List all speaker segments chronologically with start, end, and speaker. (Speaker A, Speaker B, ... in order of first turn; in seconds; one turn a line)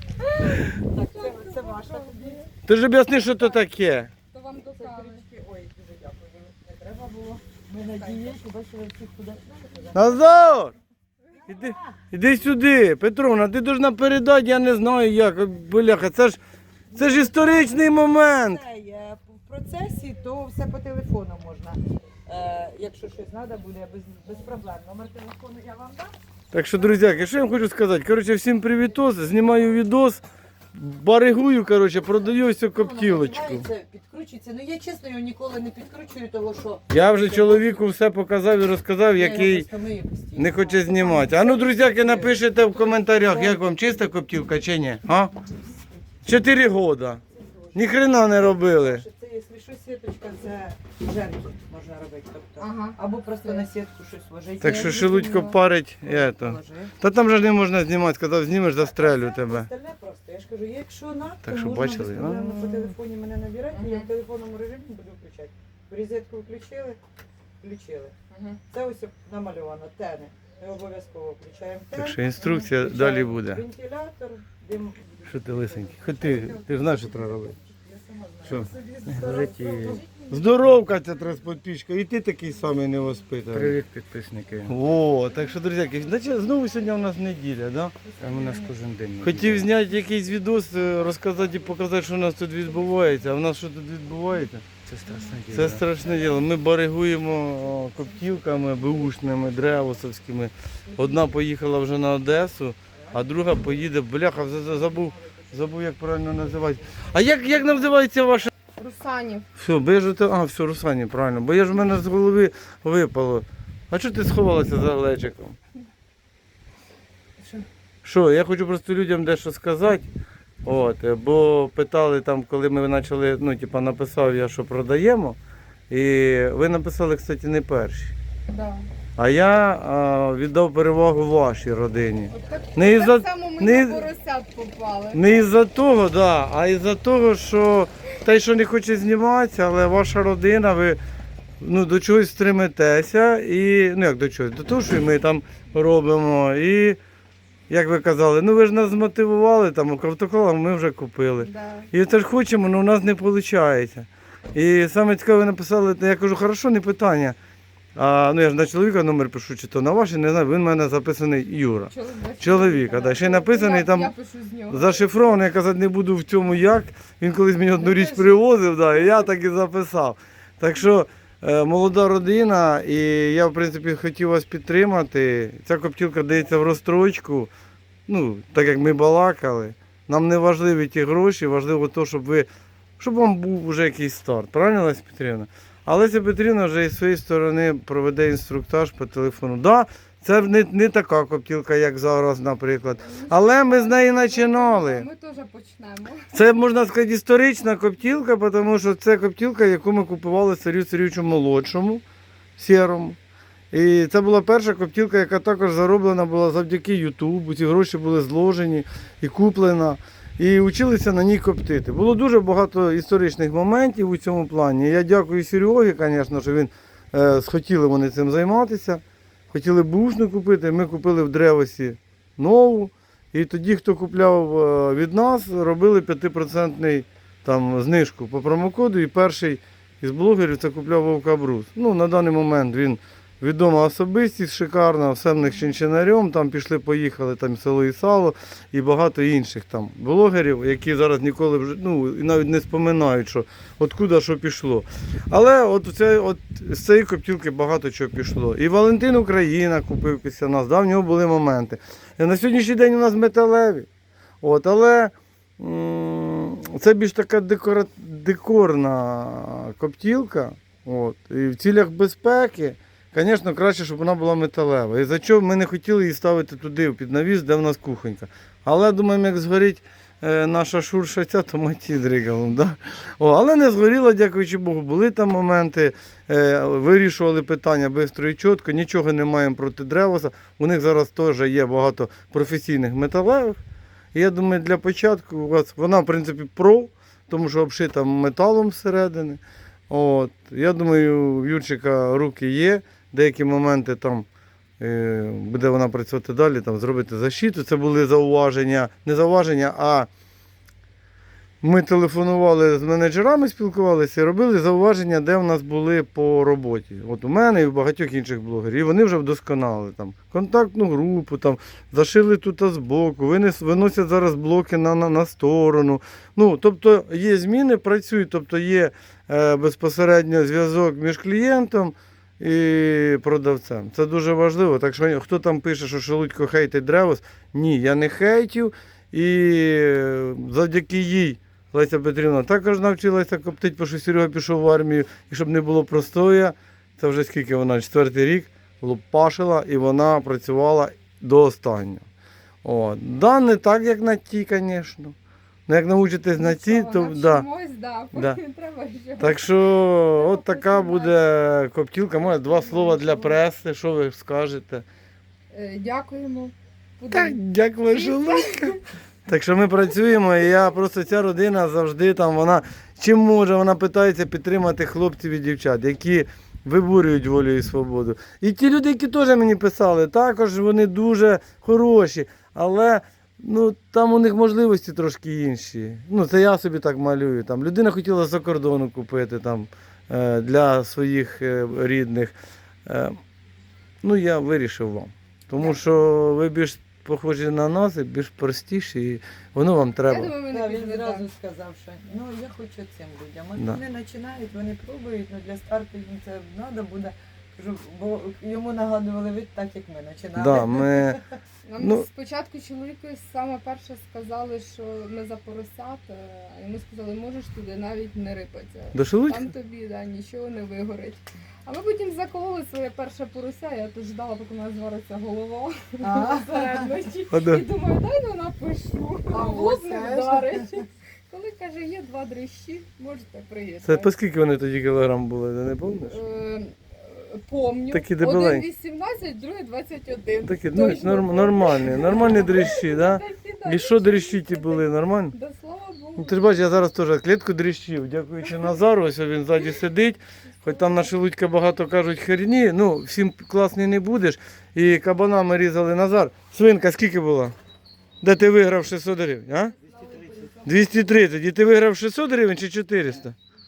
Speaker A: 0.2-2.4
Speaker B: 0.5-2.5
Speaker C: 2.6-4.1
Speaker A: 4.3-5.2
Speaker B: 4.7-10.2
Speaker A: 8.0-8.3
Speaker C: 9.9-10.7
Speaker B: 11.5-11.8
Speaker C: 11.5-16.4
Speaker B: 16.9-26.1
Speaker C: 16.9-18.6
Speaker C: 26.5-30.2
Speaker C: 30.7-33.7
Speaker B: 32.7-37.8
Speaker C: 36.9-39.7
Speaker B: 39.1-43.8
Speaker C: 40.4-45.3
Speaker B: 45.6-45.8
Speaker C: 46.2-47.2
Speaker B: 47.4-56.9
Speaker C: 47.7-49.0
Speaker A: 52.6-53.6
Speaker C: 54.6-59.7
Speaker B: 58.8-67.0
Speaker C: 61.4-62.9
Speaker A: 63.7-64.1
Speaker B: 67.6-68.1
Speaker A: 68.3-68.6
Speaker B: 68.7-80.4
Speaker C: 71.9-73.6
Speaker A: 72.4-72.7
Speaker C: 75.2-77.5
Speaker D: 79.1-80.0
Speaker C: 80.3-83.8
Speaker D: 83.5-84.7
Speaker C: 84.7-88.0
Speaker B: 88.0-88.7
Speaker D: 88.2-89.7
Speaker C: 89.2-94.7
Speaker D: 94.8-95.8
Speaker C: 95.5-108.5
Speaker A: 108.8-109.5
Speaker C: 109.5-115.6
Speaker C: 118.0-120.1
Speaker C: 120.6-125.4
Speaker C: 125.9-128.1
Speaker A: 128.5-128.9
Speaker C: 129.2-134.0
Speaker A: 132.3-135.3
Speaker C: 135.1-141.0
Speaker C: 141.6-147.0
Speaker C: 147.7-157.3
Speaker A: 151.4-151.9
Speaker C: 157.9-164.1
Speaker A: 161.9-165.1
Speaker C: 164.7-177.5
Speaker B: 167.8-168.1
Speaker C: 178.1-182.5
Speaker C: 183.0-195.1
Speaker A: 193.1-196.3
Speaker C: 196.3-202.0
Speaker C: 202.6-203.2
Speaker C: 203.7-253.9
Speaker C: 254.4-283.6
Speaker C: 284.1-294.3
Speaker C: 294.8-300.1
Speaker C: 301.6-342.0
Speaker C: 342.6-345.1
Speaker C: 345.7-347.5
Speaker A: 346.4-351.1
Speaker C: 348.1-348.4
Speaker C: 349.2-354.8
Speaker A: 352.6-353.3
Speaker A: 355.5-357.4
Speaker C: 357.1-382.3
Speaker A: 357.9-358.8
Speaker C: 382.9-383.2
Speaker C: 384.0-390.3
Speaker A: 390.0-391.3
Speaker B: 390.5-401.1
Speaker C: 400.3-401.2
Speaker A: 401.6-424.1
Speaker C: 401.8-402.1
Speaker C: 408.9-409.5
Speaker B: 416.0-416.9
Speaker C: 417.3-417.6
Speaker B: 419.3-420.8
Speaker C: 423.8-426.2
Speaker A: 426.1-436.6
Speaker C: 427.9-428.6
Speaker C: 430.4-435.3
Speaker C: 436.2-447.5
Speaker C: 448.2-449.7
Speaker D: 449.8-450.8
Speaker C: 450.6-453.4